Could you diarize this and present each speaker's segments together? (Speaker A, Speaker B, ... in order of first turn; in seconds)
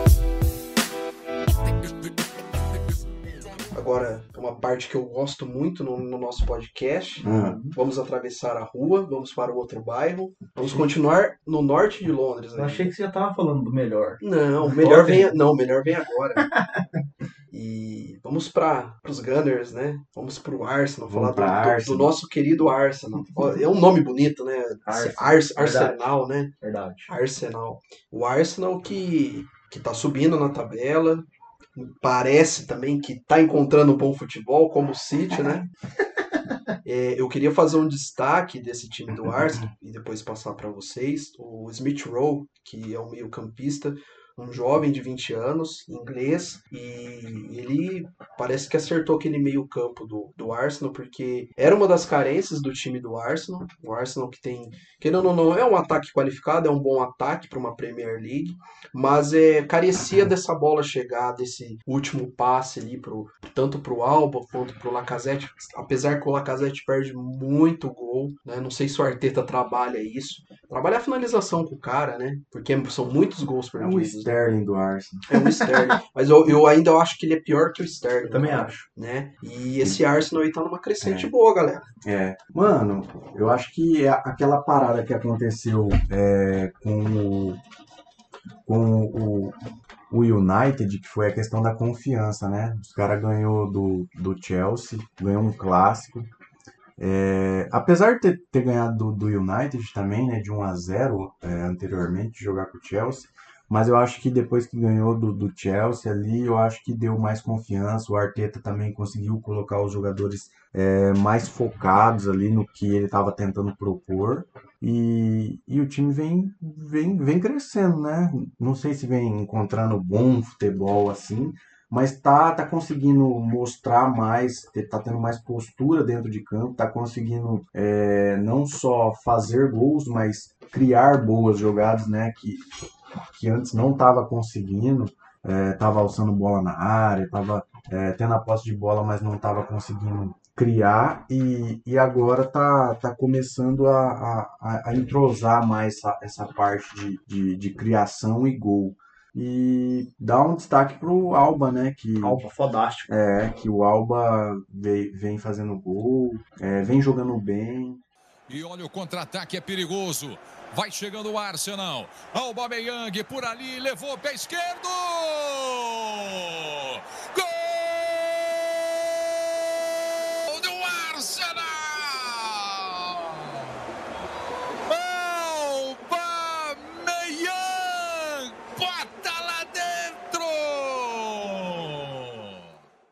Speaker A: 1.6-3.7, 158.5-169.3, 170.5-173.7, 174.9-182.6
Speaker B: 3.7-12.9, 14.2-16.5, 17.5-26.5, 27.1-35.6, 36.8-74.3, 75.3-81.9
Speaker C: 7.2-7.6, 21.1-22.1, 73.8-75.3, 81.0-81.3, 82.0-87.6, 88.7-89.6, 90.1-96.3, 97.0-132.6, 133.3-152.4, 153.1-158.0
Speaker D: 7.2-7.8, 12.6-15.3, 16.5-16.8, 24.9-26.1, 26.6-27.1, 75.4-75.8, 78.3-78.8, 152.2-153.1